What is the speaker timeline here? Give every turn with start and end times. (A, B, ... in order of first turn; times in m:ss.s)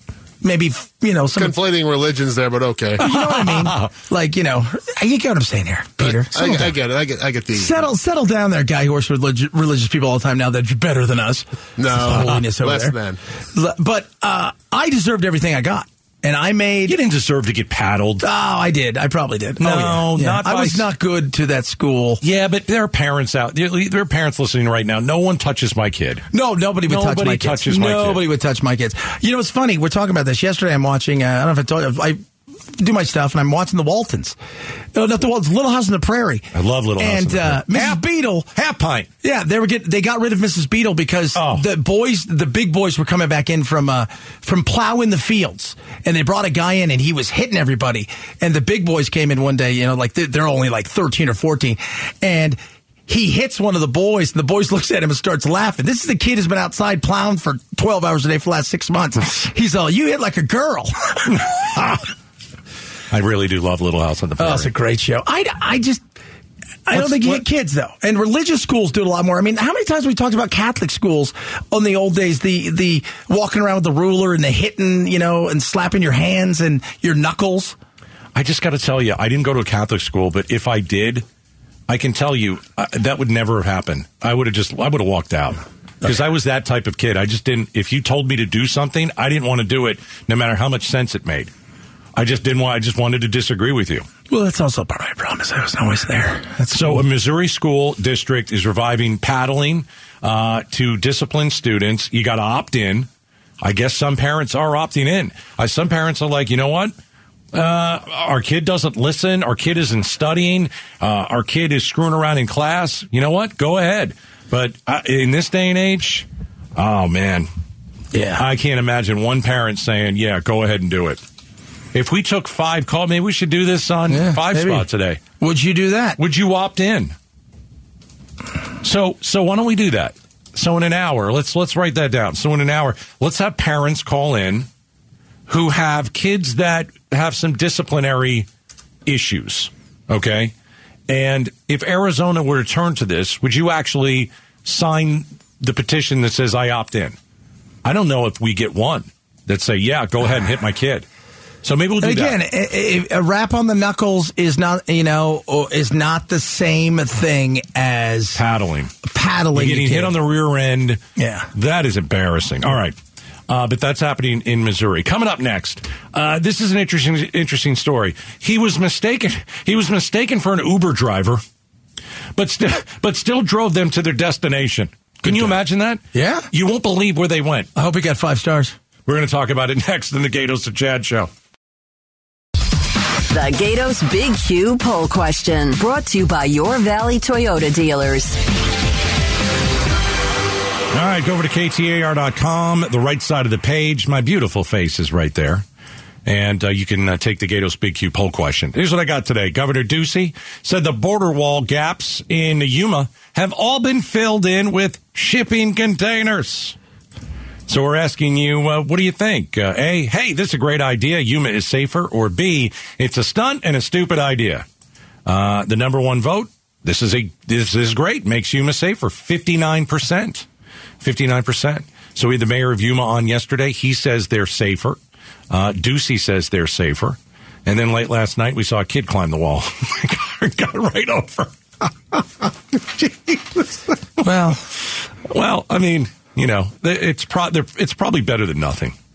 0:00.4-0:01.5 A
0:01.3-0:03.0 B
0:03.0-0:03.9 C
0:03.0-0:06.7 A
0:06.0-0:07.8 B
0:07.5-0:12.9 A
0:11.8-0:13.2 B
0:13.5-0:17.0 A
0:16.8-0:18.2 C
0:18.2-0:22.2 A
0:19.6-0:20.9 C
0:22.2-0:26.2 C
0:26.3-0:32.2 A
0:26.9-0:28.2 C
0:32.8-0:34.4 A
0:34.9-0:38.5 A
0:36.5-0:38.0 C
0:38.5-0:39.1 C
0:39.2-1:01.9 A
0:41.3-0:41.6 C
1:01.3-1:02.0 C
1:03.1-1:04.7 C
1:04.4-1:06.0 A
1:06.8-1:17.7 A
1:06.9-1:07.4 C
1:18.3-1:21.2 C
1:21.9-1:31.5 C
1:32.1-1:34.1 C
1:34.3-1:37.0 A
1:36.7-1:43.1 C
1:43.6-1:46.9 C
1:47.5-1:57.5 C
1:58.1-1:58.4 A
1:58.4-2:01.2 C
2:01.9-2:05.2 C
2:04.1-2:04.8 A
2:05.4-2:06.2 A
2:06.2-2:07.1 C
2:08.8-2:14.7 C
2:15.5-2:18.5 C
2:19.0-2:20.5 C
2:21.1-2:27.2 C
2:27.8-2:31.0 C
2:31.6-2:32.4 C
2:32.0-2:38.4 A
2:38.3-2:38.9 C
2:39.0-2:40.2 A
2:39.5-2:41.0 C
2:41.2-2:41.5 A
2:41.5-2:43.0 C
2:43.5-2:51.4 C
2:52.4-2:57.7 C
2:55.2-2:55.6 A
2:56.1-2:56.5 A
2:57.8-2:58.7 A
2:59.0-3:01.3 C
3:03.3-3:08.4 D
3:10.9-3:15.6 C
3:16.2-3:26.8 C
3:27.7-3:34.6 C
3:35.2-3:40.5 C
3:41.0-3:45.0 C
3:45.5-3:53.6 C
3:54.2-3:54.5 C
3:54.2-3:54.6 A
3:55.2-3:58.9 C